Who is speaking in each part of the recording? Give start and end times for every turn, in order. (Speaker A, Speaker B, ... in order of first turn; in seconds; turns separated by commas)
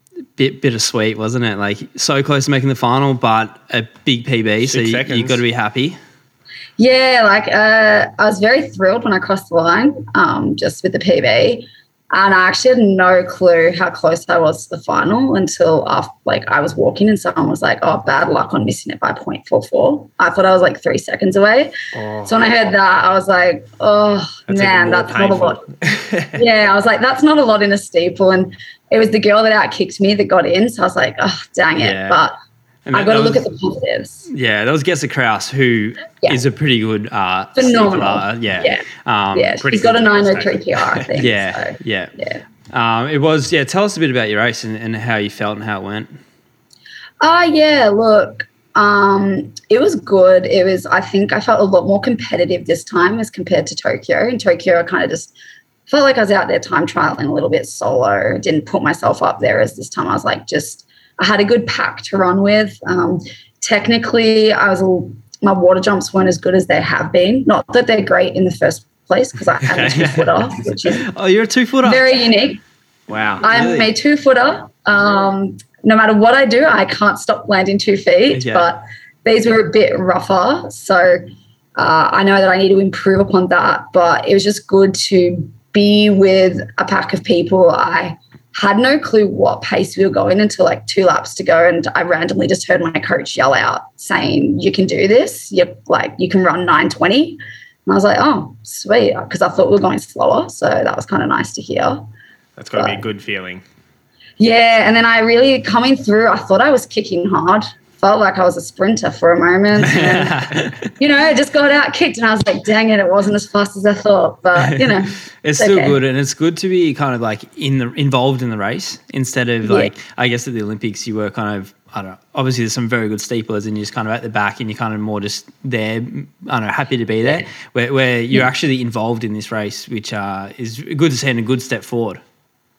Speaker A: 0.3-6.0, Speaker B: 4.6-5.4, Speaker C: 6.8-21.7, Speaker B: 21.9-22.4, Speaker C: 22.2-25.6, Speaker B: 24.5-26.4, Speaker C: 26.4-32.3, Speaker A: 31.8-32.2, Speaker A: 32.9-33.4, Speaker C: 32.9-34.3, Speaker A: 34.3-39.6, Speaker C: 37.5-42.4, Speaker B: 39.6-41.1, Speaker A: 41.1-42.1, Speaker A: 42.7-46.1, Speaker C: 47.2-55.3, Speaker C: 55.9-71.1, Speaker A: 69.7-72.1, Speaker C: 71.8-72.6, Speaker B: 73.1-73.5, Speaker A: 73.4-73.9, Speaker C: 73.4-102.1, Speaker A: 78.3-78.7, Speaker B: 102.6-103.6, Speaker C: 102.8-103.0, Speaker C: 104.4-116.0, Speaker A: 109.8-110.8, Speaker A: 114.5-132.2, Speaker C: 119.6-119.9